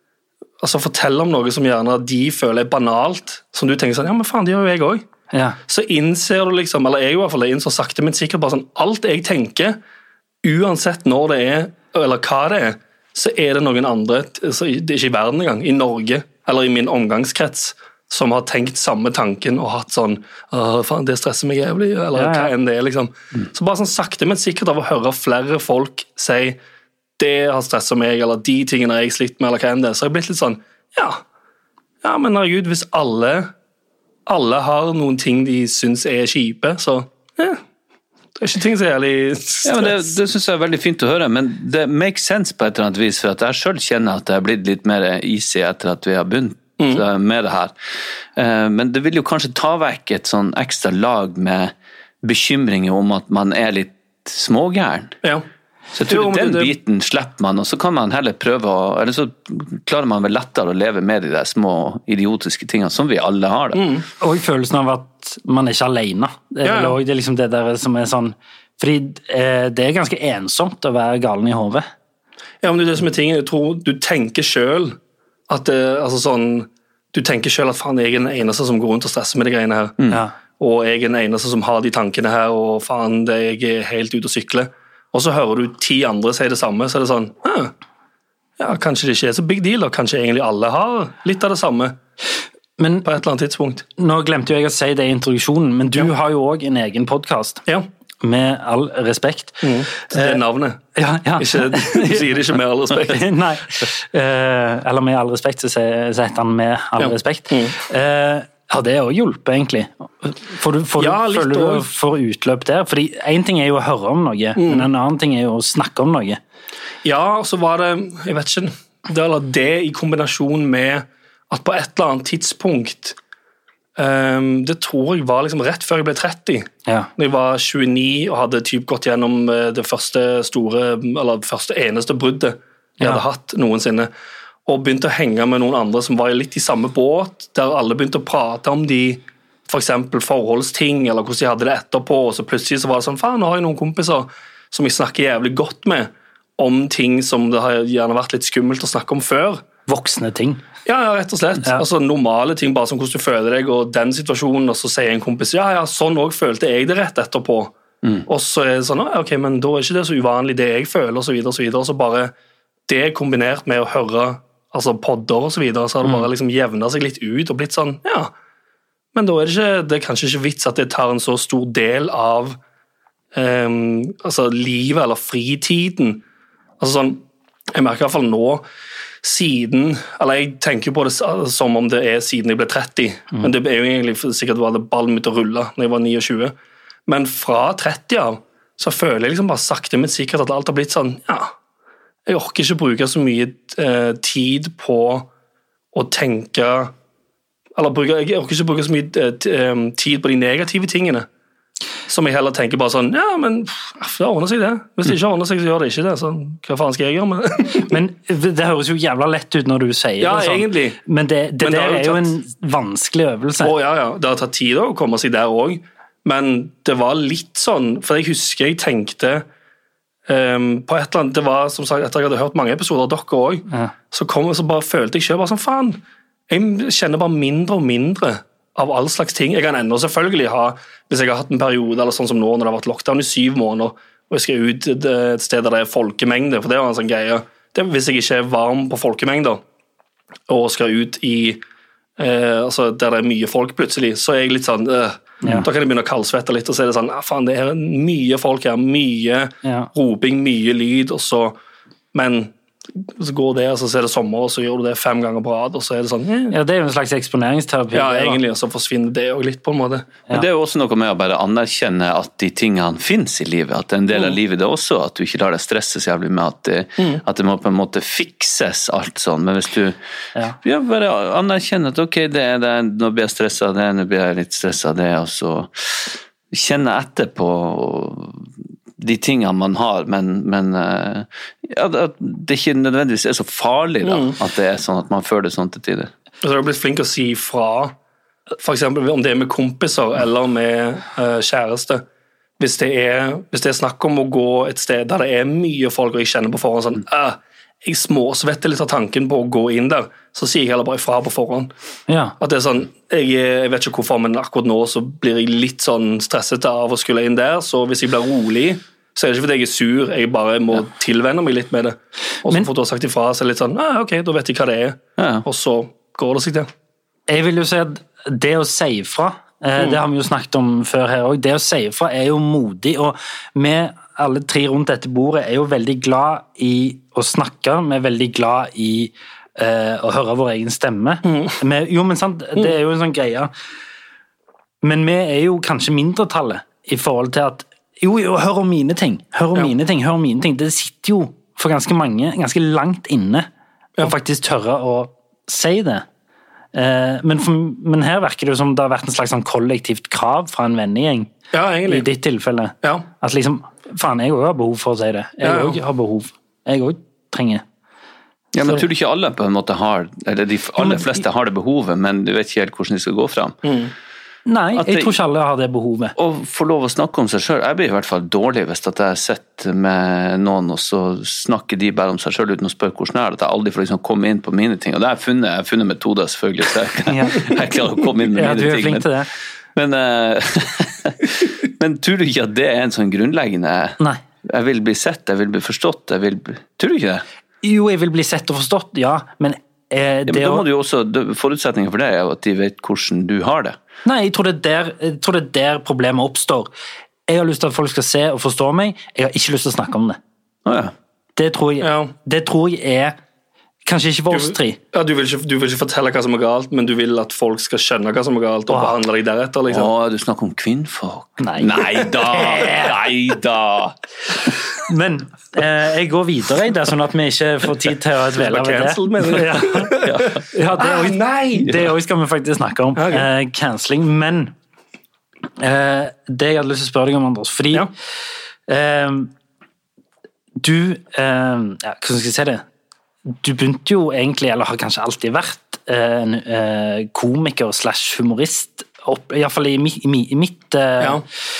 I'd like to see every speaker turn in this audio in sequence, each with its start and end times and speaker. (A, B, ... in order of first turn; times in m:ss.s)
0:00.6-0:05.0 A
0:05.3-0:05.6 B
0:05.7-0:09.8 A
0:10.4-0:26.6 A
0:22.1-0:22.5 B
0:27.2-0:31.2 A
0:32.0-0:33.5 A
0:34.3-0:37.6 A
0:38.4-0:40.0 A
0:39.6-0:47.7 C
0:48.4-0:55.2 C
0:55.9-1:03.8 C
0:56.1-0:56.7 A
1:03.7-1:04.0 A
1:04.2-1:11.9 B
1:06.6-1:07.0 A
1:12.6-1:15.0 A
1:15.5-1:20.0 A
1:20.6-1:27.7 A
1:28.6-1:32.0 A
1:32.8-1:33.0 B
1:33.0-1:33.8 A
1:34.0-1:37.6 B
1:38.2-1:40.4 B
1:39.6-1:40.8 A
1:40.9-1:42.2 B
1:41.4-1:43.2 A
1:43.0-1:56.4 B
1:47.0-1:47.8 A
1:51.0-1:51.9 A
1:54.6-1:54.9 A
1:57.0-2:03.2 A
2:04.0-2:14.1 A
2:06.8-2:07.1 B
2:14.6-2:29.6 A
2:29.9-2:30.6 B
2:30.8-2:37.7 A
2:38.3-2:42.3 A
2:42.9-2:48.3 A
2:49.1-2:52.6 A
2:53.3-2:56.2 A
2:56.8-2:58.6 A
2:59.2-3:06.5 A
3:07.1-3:11.5 A
3:12.3-3:15.3 A
3:15.9-3:16.9 A
3:17.8-3:21.3 A
3:22.1-3:27.9 A
3:27.9-3:33.7 B
3:30.2-3:31.0 A
3:31.6-3:32.3 A
3:33.6-3:39.4 A
3:40.3-3:59.6 A
4:00.5-4:01.6 A
4:02.2-4:11.6 A
4:09.6-4:09.9 B
4:12.1-4:12.5 A
4:13.1-4:16.5 A
4:16.5-4:18.4 B
4:17.9-4:20.1 A
4:20.3-4:30.0 C
4:30.6-4:46.1 C
4:44.0-4:44.4 A
4:46.4-4:47.9 A
4:48.6-4:52.0 A
4:52.6-5:01.7 A
5:02.1-5:02.3 B
5:02.4-5:16.7 A
5:15.2-5:15.4 C
5:17.3-5:33.5 B
5:31.2-5:31.6 A
5:34.8-5:43.5 B
5:44.0-5:46.0 B
5:46.7-5:51.3 B
5:51.5-5:52.1 A
5:51.9-5:57.6 B
5:55.4-5:55.8 A
5:58.5-6:03.6 C
6:00.8-6:01.2 B
6:03.6-6:03.9 A
6:04.4-6:06.1 B
6:04.8-6:05.1 C
6:06.2-6:19.1 C
6:17.1-6:17.4 B
6:18.3-6:19.3 B
6:19.7-6:27.2 C
6:27.6-6:30.6 B
6:30.3-6:33.8 C
6:34.0-6:36.7 B
6:37.3-6:40.2 B
6:40.6-6:40.9 C
6:41.4-6:43.2 B
6:41.8-6:42.1 A
6:43.8-6:44.8 B
6:44.3-6:49.9 A
6:48.7-6:48.9 B
6:49.7-6:54.0 C
6:51.4-6:51.7 B
6:52.3-6:52.9 B
6:54.9-6:59.9 B
6:58.4-7:00.2 A
7:00.0-7:00.4 C
7:00.5-7:04.5 B
7:00.8-7:01.8 A
7:03.0-7:03.3 A
7:05.6-7:07.9 B
7:08.7-7:09.3 B
7:10.6-7:12.6 B
7:13.3-7:21.2 B